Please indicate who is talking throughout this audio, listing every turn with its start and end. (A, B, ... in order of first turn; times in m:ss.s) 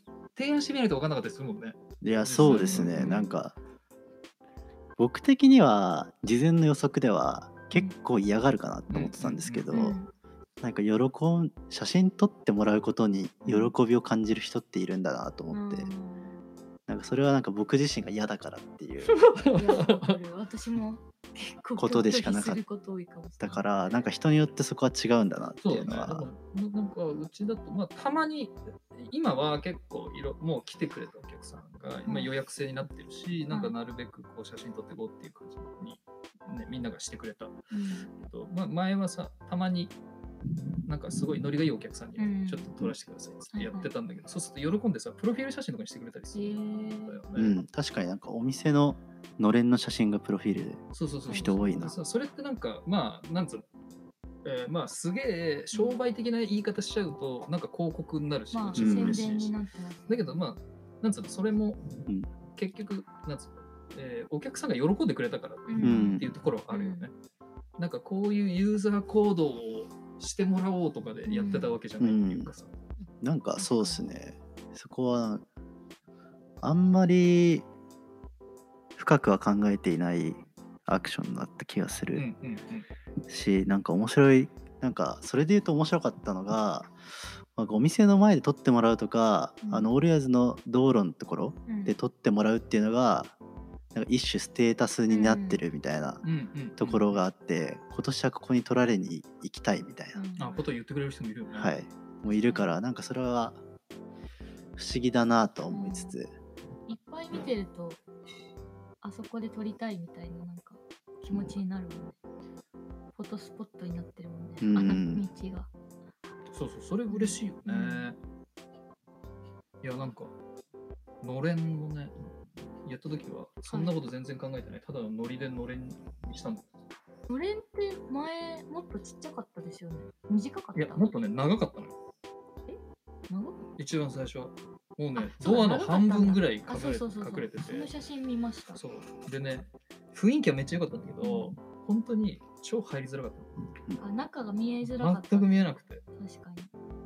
0:00.4-0:03.2 A
0:02.0-0:03.6 B
0:02.4-0:03.4 C
0:05.0-0:10.0 B
0:08.9-0:09.9 A
0:09.7-0:10.1 C
0:10.6-0:15.9 B
0:13.4-0:13.7 C
0:15.5-0:16.4 C
0:16.9-0:19.2 B
0:19.1-0:20.2 A
0:19.5-0:23.7 C
0:21.8-0:22.6 B
0:23.4-0:26.3 B
0:25.6-0:37.6 A
0:32.1-0:32.3 C
0:37.7-0:38.1 C
0:38.1-0:39.9 A
0:40.9-0:47.6 A
0:42.2-0:42.7 C
0:43.5-0:43.9 C
0:46.3-0:47.2 C
0:47.4-0:52.0 B
0:50.9-0:53.6 A
0:51.3-0:51.6 C
0:54.4-0:59.5 A
0:55.7-0:56.0 C
0:58.5-1:00.4 C
0:58.8-0:59.3 B
1:00.1-1:01.8 A
1:02.5-1:07.1 A
1:05.7-1:07.1 C
1:05.8-1:06.3 B
1:07.8-1:12.7 A
1:11.3-1:11.8 C
1:12.0-1:12.5 B
1:13.2-1:15.4 B
1:13.6-1:14.0 C
1:16.6-1:17.7 B
1:19.0-1:22.2 B
1:22.2-1:22.9 A
1:23.3-1:26.9 B
1:27.6-1:33.3 B
1:29.6-1:29.9 C
1:31.7-1:32.0 C
1:33.9-1:36.2 B
1:35.1-1:35.6 C
1:36.2-1:37.2 A
1:36.8-1:40.2 B
1:40.2-1:40.6 C
1:40.4-1:41.7 A
1:41.5-1:43.6 B
1:42.2-1:42.8 C
1:44.8-1:46.3 B
1:45.7-1:46.2 C
1:46.9-1:48.0 C
1:49.0-1:52.2 C
1:53.2-1:55.7 C
1:54.6-1:55.3 B
1:56.5-1:58.2 A
1:57.1-1:58.1 C
1:59.8-2:00.3 A
2:01.2-2:02.3 A
2:02.8-2:06.6 A
2:03.7-2:04.0 C
2:07.3-2:11.1 C
2:10.8-2:12.0 A
2:12.7-2:13.7 C
2:13.8-2:17.9 A
2:15.2-2:18.8 C
2:18.7-2:23.5 A
2:21.2-2:21.5 C
2:24.0-2:26.7 C
2:24.8-2:26.0 A